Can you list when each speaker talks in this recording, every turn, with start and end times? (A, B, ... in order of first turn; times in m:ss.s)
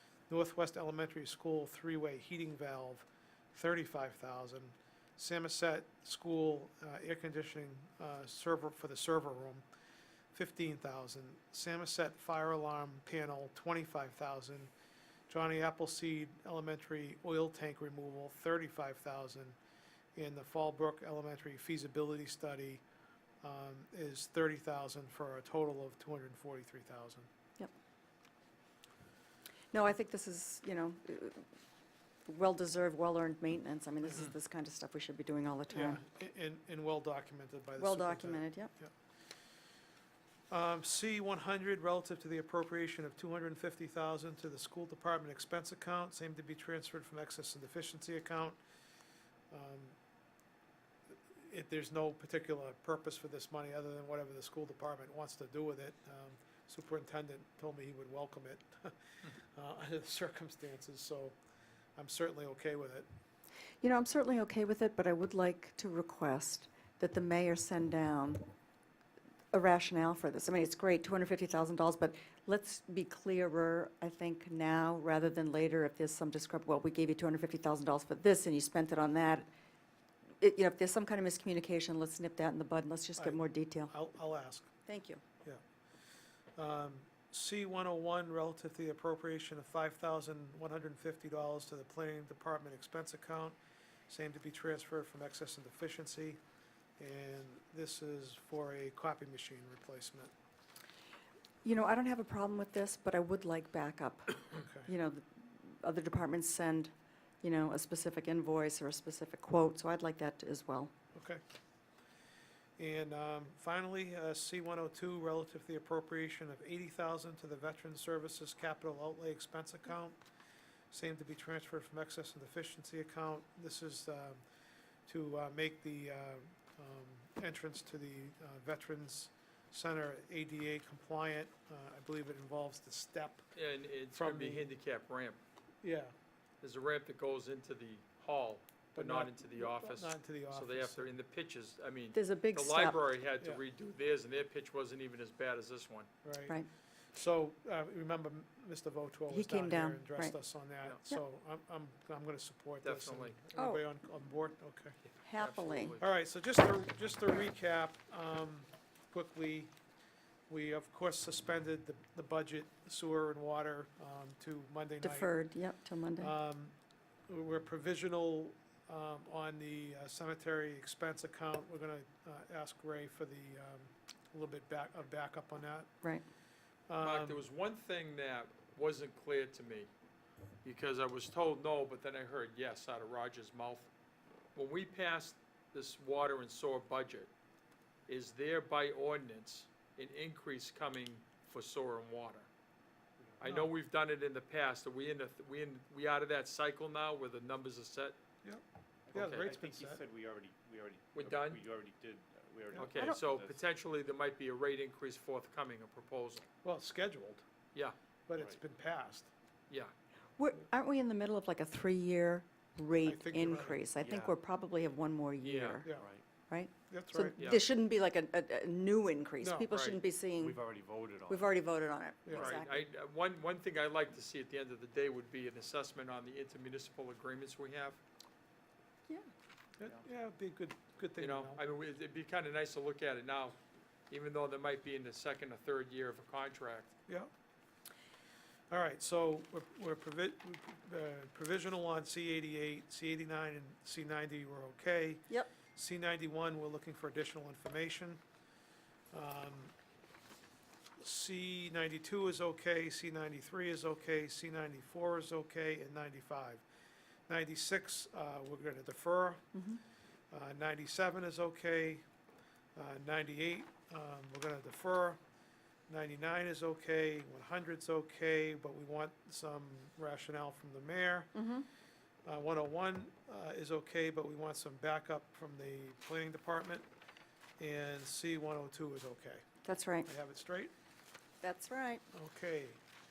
0:00.3-0:09.6 A
0:10.3-0:14.7 A
0:15.3-0:19.6 A
0:20.2-0:22.8 A
0:23.4-0:27.3 A
0:29.7-0:31.5 B
0:32.3-0:36.0 B
0:34.1-0:34.3 A
0:35.7-0:38.9 A
0:37.8-0:38.7 B
0:40.5-0:48.6 A
0:49.5-0:50.0 A
0:51.4-1:01.4 A
1:02.0-1:03.1 A
1:03.8-1:08.5 B
1:09.5-1:19.5 B
1:20.4-1:23.9 B
1:23.2-1:24.7 A
1:24.9-1:25.2 B
1:26.6-1:33.6 A
1:34.1-1:36.4 A
1:37.0-1:40.3 A
1:41.6-1:50.9 B
1:44.5-1:44.9 A
1:51.1-1:51.4 A
1:52.8-2:00.2 A
2:00.9-2:04.4 A
2:05.1-2:13.5 A
2:13.6-2:15.4 C
2:14.1-2:14.7 A
2:15.8-2:16.1 A
2:16.6-2:26.1 C
2:19.0-2:21.1 A
2:22.1-2:23.0 B
2:26.2-2:26.6 A
2:27.1-2:35.0 A
2:29.3-2:30.4 B
2:32.8-2:33.4 C
2:33.6-2:33.8 B
2:35.1-2:36.0 C
2:35.2-2:36.0 B
2:36.0-2:39.7 A
2:40.5-2:45.3 A
2:45.0-2:46.3 B
2:46.2-2:46.7 A
2:47.3-2:55.9 A
2:56.9-2:57.4 A
2:57.0-2:59.9 C
3:00.6-3:03.9 C
3:04.6-3:07.3 C
3:08.1-3:12.5 C
3:13.4-3:18.2 C
3:13.4-3:13.7 A
3:18.4-3:20.0 A
3:19.1-3:23.6 D
3:19.1-3:19.5 C
3:21.2-3:21.6 C
3:22.8-3:26.5 C
3:26.6-3:27.4 A
3:28.3-3:29.3 A
3:30.4-3:35.9 B
3:33.0-3:33.8 A
3:34.0-3:34.4 D
3:35.4-3:35.8 C
3:36.0-3:36.2 D
3:36.5-3:40.6 B
3:36.9-3:37.4 A
3:37.4-3:37.7 C
3:39.4-3:39.7 A
3:39.7-3:40.0 C
3:40.4-3:41.7 D
3:41.3-3:42.8 B
3:42.2-3:42.6 A
3:42.3-3:48.0 C
3:49.8-3:51.6 A
3:51.2-3:53.6 C
3:54.1-3:56.9 C
3:58.7-4:08.2 A
4:09.1-4:09.7 A
4:11.0-4:16.6 A
4:17.3-4:19.4 A
4:19.6-4:19.8 B
4:20.3-4:22.0 A
4:22.8-4:25.2 A
4:25.9-4:31.3 A
4:31.4-4:31.7 B
4:32.2-4:36.9 A
4:37.6-4:39.5 A
4:39.6-4:40.1 B
4:40.0-4:40.7 A
4:41.4-4:42.0 B
4:42.1-4:42.8 A